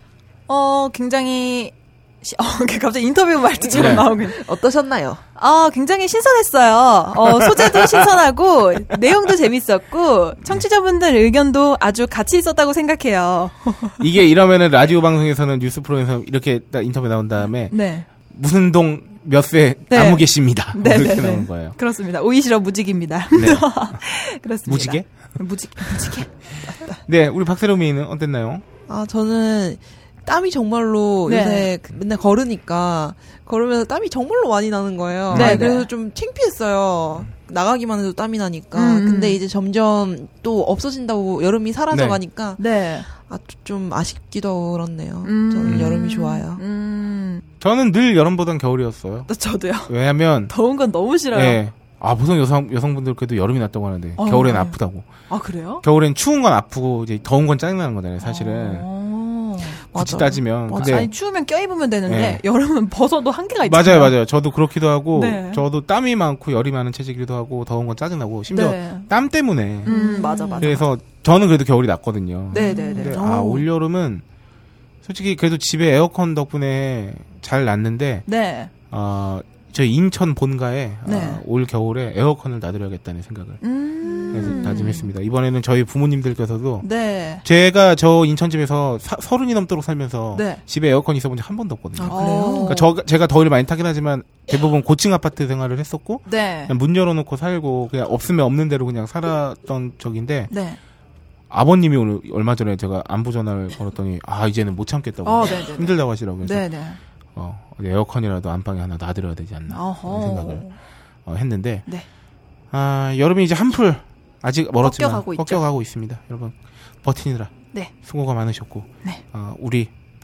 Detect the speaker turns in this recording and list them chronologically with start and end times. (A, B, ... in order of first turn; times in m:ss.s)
0:00.5-0:04.4 A
0:03.6-0:05.2 B
0:03.7-0:04.0 C
0:05.4-0:14.0 A
0:07.3-0:08.0 C
0:14.0-0:17.7 C
0:17.7-0:18.1 A
0:18.3-0:21.8 C
0:19.9-0:27.0 A
0:23.3-0:24.0 C
0:24.6-0:25.0 C
0:25.9-0:26.2 C
0:27.0-0:28.6 C
0:28.9-0:46.6 B
0:31.2-0:31.7 A
0:35.3-0:35.7 C
0:35.3-0:35.9 A
0:38.7-0:39.4 A
0:41.9-0:42.2 C
0:42.6-0:43.1 A
0:45.2-0:47.4 A
0:45.6-0:45.9 C
0:47.6-0:49.3 C
0:49.3-0:49.9 A
0:49.9-0:50.5 C
0:50.5-0:51.6 A
0:51.3-0:55.1 C
0:54.2-0:54.7 A
0:55.3-0:55.8 A
0:55.8-0:58.8 C
0:58.2-0:59.8 A
0:59.9-1:01.1 B
0:59.9-1:01.1 C
1:00.7-1:04.1 A
1:02.1-1:02.4 C
1:03.6-1:09.9 C
1:05.2-1:05.6 A
1:08.5-1:09.1 A
1:09.8-1:10.8 B
1:09.8-1:10.8 A
1:10.6-1:14.2 C
1:12.5-1:13.2 B
1:12.5-1:13.6 A
1:15.0-1:18.2 C
1:18.2-1:18.7 A
1:18.9-1:23.6 C
1:21.0-1:21.4 A
1:23.6-1:25.1 A
1:24.0-1:24.9 B
1:24.3-1:26.8 C
1:26.8-1:27.4 A
1:27.4-1:40.5 C
1:30.3-1:30.6 A
1:32.0-1:32.9 B
1:32.1-1:32.8 A
1:36.3-1:36.7 A
1:40.5-1:40.8 A
1:41.5-1:46.6 C
1:45.2-1:47.0 A
1:47.4-1:50.7 C
1:49.7-1:50.7 A
1:51.2-1:51.9 C
1:52.7-1:59.9 C
1:54.8-1:55.6 A